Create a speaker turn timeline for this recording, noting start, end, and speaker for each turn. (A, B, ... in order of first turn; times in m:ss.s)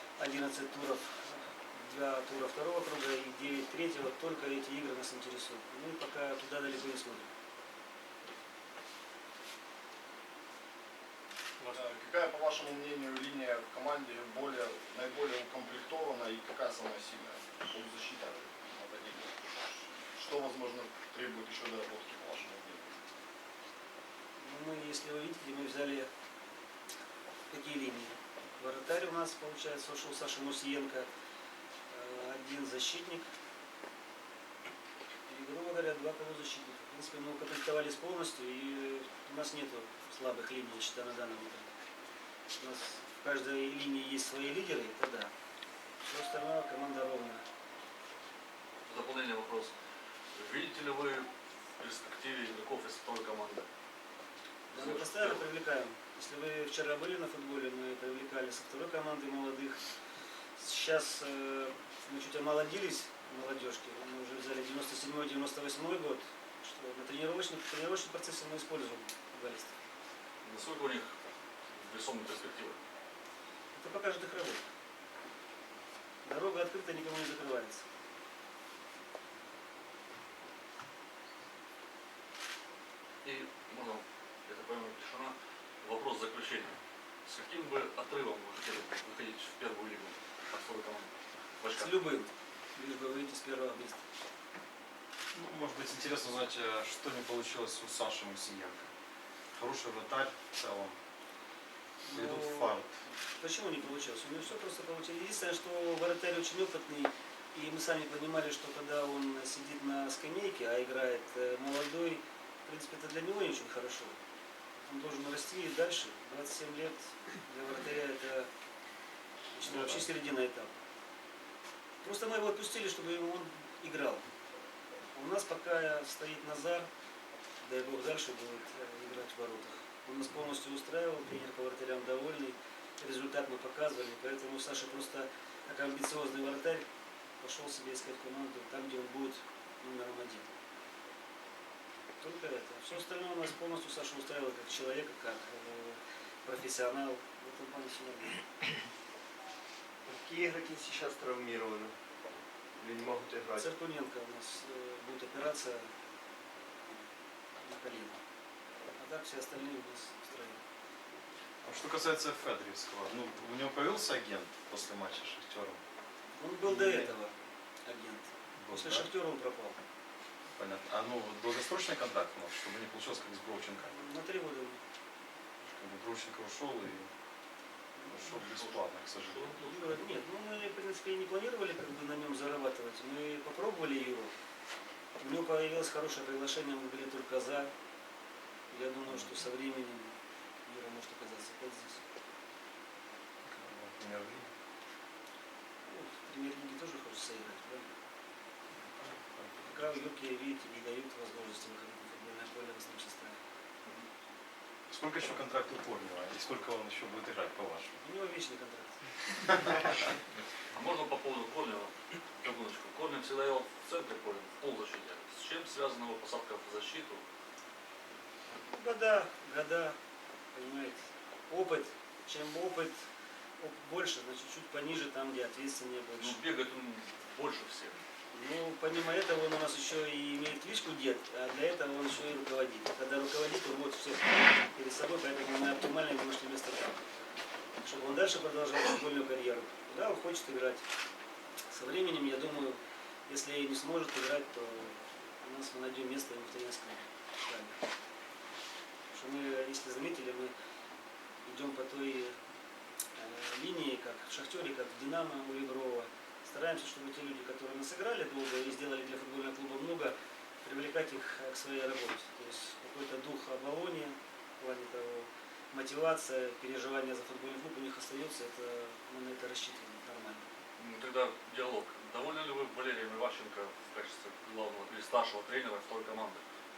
0:00.2-0:07.3 A
0:11.7-0:23.0 B
0:24.4-0:26.1 A
0:27.5-0:31.1 A
0:31.9-0:33.3 A
0:35.3-0:41.7 A
0:42.6-0:45.3 A
0:46.0-0:47.4 A
0:48.9-0:49.7 C
0:50.4-0:53.7 C
0:54.7-0:55.4 C
0:54.7-0:59.8 A
1:00.6-1:09.7 A
1:10.4-1:11.2 C
1:11.7-1:12.8 C
1:13.7-1:14.6 A
1:16.2-1:17.8 A
1:23.2-1:32.0 C
1:31.8-1:34.0 A
1:35.3-1:38.9 D
1:39.5-1:41.0 D
1:42.0-1:42.8 A
1:42.1-1:43.0 D
1:43.4-1:54.2 A
1:54.8-1:58.5 A
1:59.5-2:00.8 A
1:59.6-2:00.1 D
2:02.0-2:04.2 A
2:05.1-2:06.9 A
2:07.6-2:16.9 A
2:17.4-2:20.5 A
2:22.2-2:28.4 A
2:30.1-2:32.0 E
2:32.8-2:33.7 E
2:33.6-2:35.9 A
2:37.6-2:38.2 A
2:39.0-2:40.6 A
2:41.6-2:45.8 D
2:46.3-2:49.8 A
2:46.6-2:47.2 D
2:48.6-2:49.1 D
2:50.6-2:54.0 D
2:53.9-2:54.8 A
2:55.6-2:57.1 D
2:58.0-2:58.4 A
2:58.1-2:59.6 D
2:58.4-2:59.9 C
2:59.6-3:04.3 A
3:05.2-3:07.7 A
3:08.7-3:10.1 A
3:09.1-3:09.3 D
3:10.7-3:12.0 A
3:13.4-3:14.5 D
3:15.8-3:17.9 A
3:19.3-3:19.8 D
3:19.6-3:23.4 A
3:24.9-3:28.0 D
3:28.0-3:29.0 A
3:30.7-3:37.2 C
3:38.6-3:40.0 A
3:40.5-3:43.0 A
3:43.6-3:46.4 A
3:46.2-3:48.1 C
3:48.3-3:57.0 A
3:57.8-4:00.8 A
4:01.7-4:07.8 A
4:09.1-4:10.5 A
4:11.4-4:12.4 A
4:13.2-4:30.5 A
4:30.8-4:36.4 C